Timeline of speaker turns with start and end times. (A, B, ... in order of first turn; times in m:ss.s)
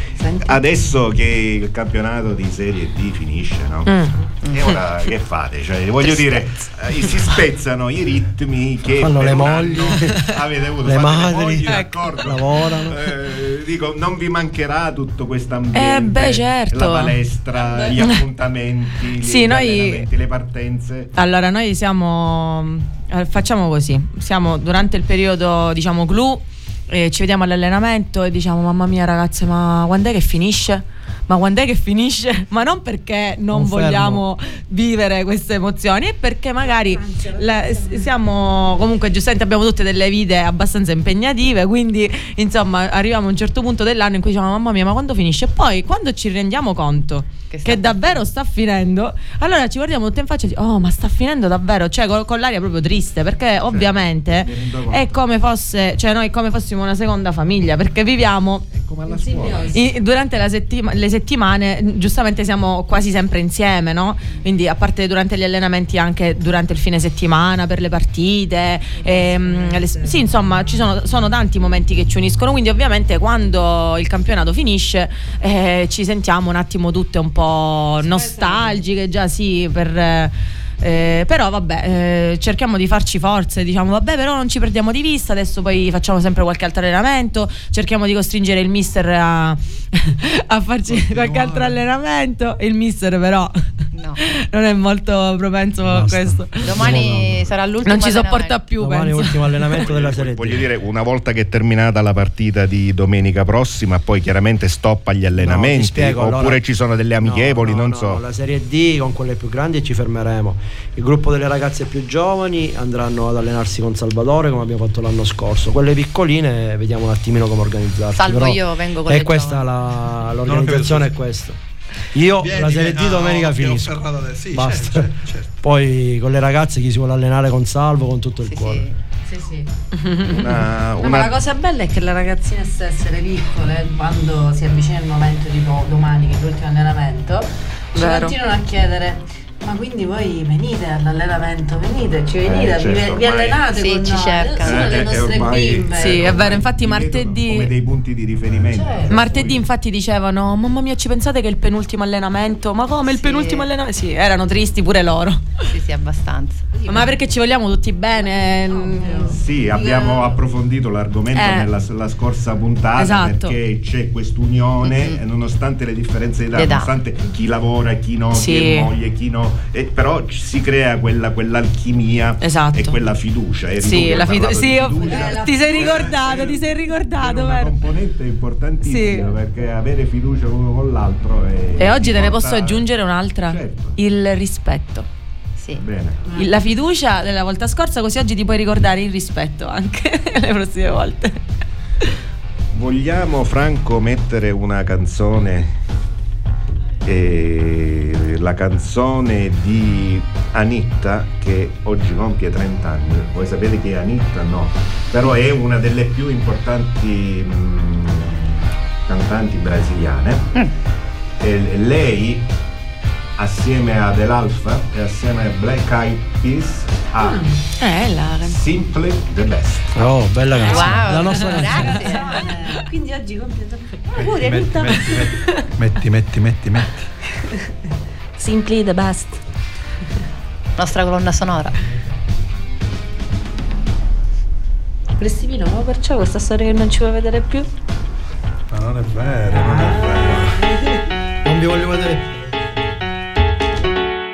0:00.2-0:00.6 A
0:00.4-0:21.1 B
0:03.9-0:04.2 C
0:09.0-0:10.2 D
0:10.8-0:13.0 D
0:11.7-0:12.0 C
0:15.7-0:17.2 C
0:17.6-0:17.9 A
0:18.0-0:18.2 C
0:19.1-0:20.1 C
0:21.1-0:58.6 C
0:33.5-0:34.2 D
0:36.6-0:38.1 A
0:47.5-0:48.2 E
0:53.6-0:55.2 B
0:58.8-0:59.7 B
0:59.0-1:00.0 A
0:59.7-1:33.6 C
1:08.9-1:11.3 A
1:18.0-1:18.9 A
1:33.9-1:34.2 E
1:34.2-1:37.0 C
1:35.8-1:37.5 D
1:36.6-1:38.6 E
1:37.8-1:39.8 C
1:38.8-1:40.7 D
1:39.8-1:48.2 B
1:45.4-1:46.6 D
1:47.2-2:01.6 D
1:58.1-1:59.6 E
2:00.4-2:01.1 F
2:02.1-2:05.1 D
2:02.4-2:05.5 F
2:05.6-2:08.9 D
2:08.4-2:09.0 E
2:09.2-2:09.7 A
2:10.3-2:11.4 B
2:11.0-2:26.5 A
2:18.0-2:18.4 C
2:22.4-2:23.6 B
2:23.7-2:25.1 E
2:24.6-2:29.6 B
2:25.9-2:27.7 C
2:28.6-2:29.6 A
2:29.1-2:35.5 C
2:33.1-2:33.7 E
2:35.6-2:37.1 E
2:36.8-2:37.1 A
2:36.9-2:39.4 C
2:38.1-2:40.4 A
2:39.3-3:02.9 B
2:41.3-2:41.7 C
2:43.0-2:43.6 C
2:44.8-2:45.2 E
2:46.5-2:46.9 E
2:48.3-2:48.9 C
2:52.4-2:53.0 C
2:53.8-2:57.8 C
2:54.8-2:56.2 A
2:58.8-2:59.3 C
3:01.8-3:05.1 C
3:03.4-3:03.9 B
3:05.6-3:05.8 E
3:05.8-3:06.2 B
3:06.3-3:11.4 C
3:12.7-3:15.7 B
3:17.0-3:30.4 B
3:31.4-3:32.4 B
3:33.4-3:37.4 B
3:37.2-3:37.6 A
3:37.8-3:38.6 C
3:38.5-3:39.9 B
3:39.9-3:42.0 D
3:40.6-3:42.5 E
3:41.4-3:45.6 A
3:44.1-3:47.1 F
3:48.4-3:49.4 A
3:50.8-3:51.8 E
3:55.2-3:57.7 A
3:58.7-4:00.6 F
3:59.5-4:01.0 A
4:01.4-4:02.3 D